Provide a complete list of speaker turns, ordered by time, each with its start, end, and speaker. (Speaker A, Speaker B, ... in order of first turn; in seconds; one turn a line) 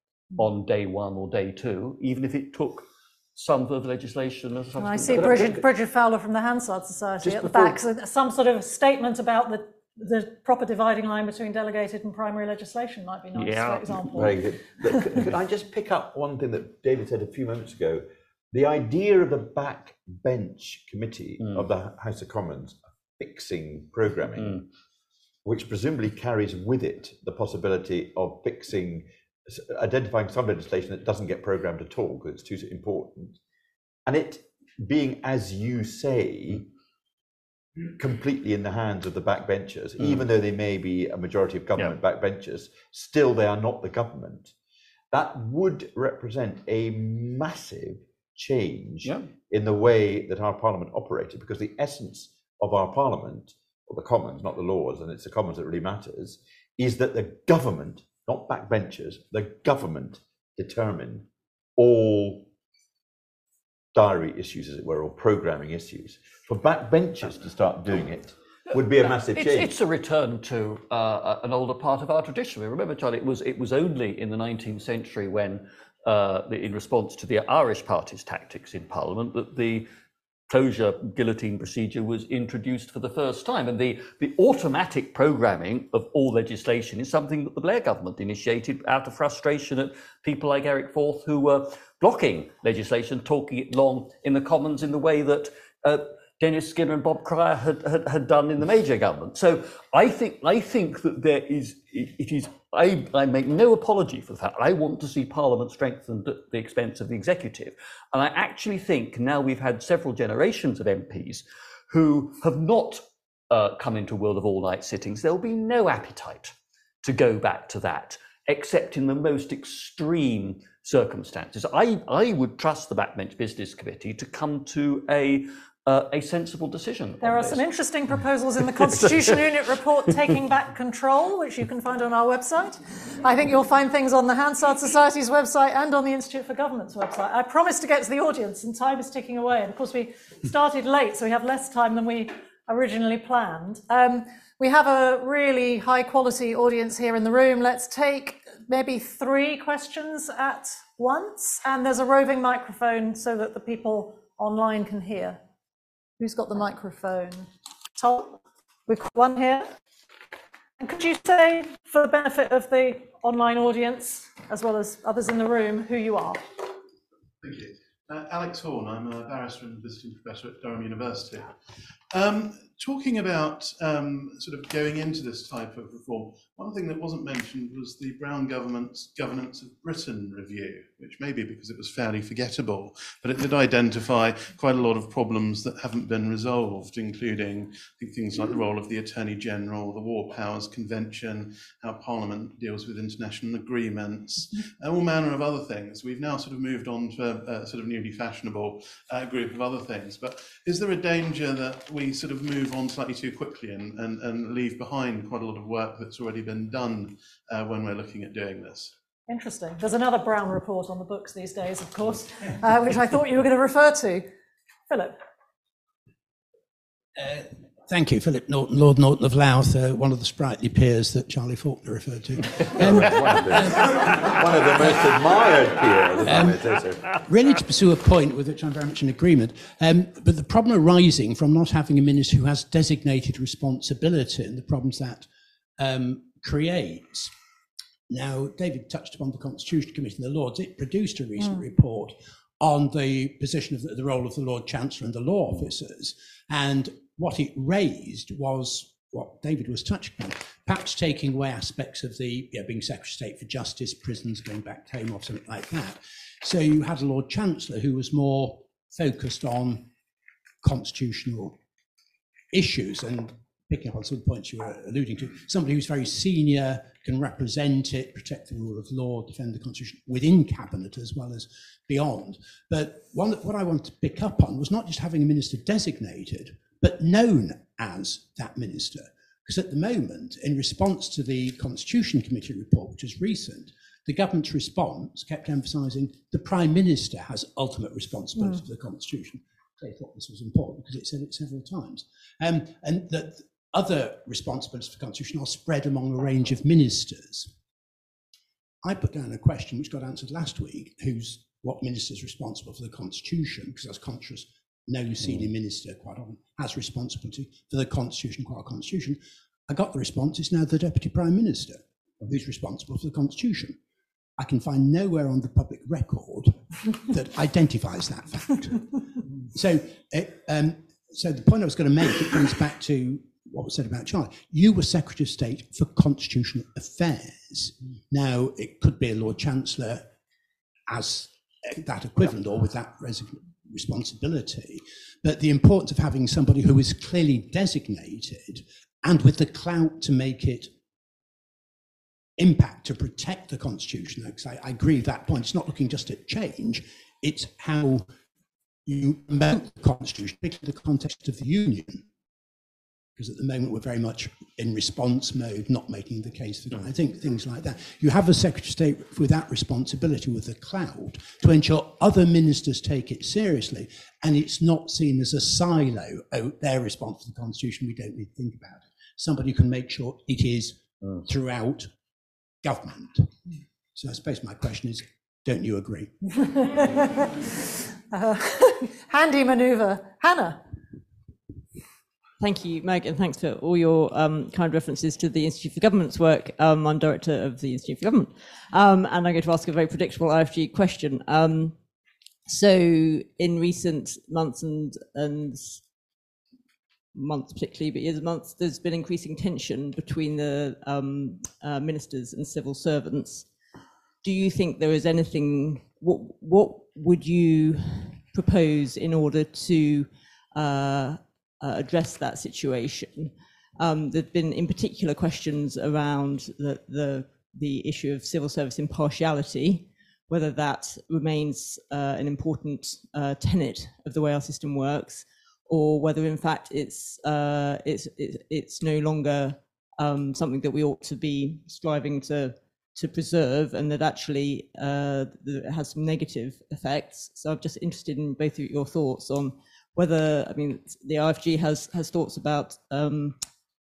Speaker A: 0.4-5.6
Speaker B: 4.8-14.3
Speaker C: 5.1-5.6
Speaker C: 7.2-7.8
Speaker A: 13.3-14.3
Speaker C: 14.1-24.6
Speaker A: 21.4-21.6
Speaker C: 25.4-33.4
Speaker C: 34.0-36.7
Speaker C: 37.9-44.5
Speaker C: 45.1-62.5
Speaker C: 63.9-69.7
Speaker A: 69.3-79.9
Speaker A: 80.5-127.7
Speaker B: 127.2-155.4
Speaker A: 128.6-129.4
Speaker B: 156.2-159.7
Speaker B: 160.8-166.4
Speaker D: 167.4-171.6
Speaker D: 172.1-208.9
Speaker B: 209.3-214.3
Speaker B: 214.9-215.2
Speaker E: 217.2-223.8
Speaker C: 222.8-227.1
Speaker A: 222.9-223.7
Speaker E: 226.2-226.6
Speaker E: 227.1-235.3
Speaker E: 235.8-237.3
Speaker E: 238.1-259.9
Speaker E: 260.6-261.6
Speaker E: 262.5-297.5
Speaker B: 288.4-288.6
Speaker E: 298.8-313.8
Speaker E: 314.4-330.1
Speaker E: 330.9-340.7
Speaker E: 342.4-348.1
Speaker E: 348.9-352.1
Speaker E: 353.2-371.9
Speaker E: 372.6-373.3
Speaker E: 373.9-376.1
Speaker B: 376.4-377.5
Speaker B: 378.1-380.6
Speaker F: 382.4-391.8
Speaker F: 392.4-395.9
Speaker F: 397.1-403.5
Speaker F: 404.2-443.4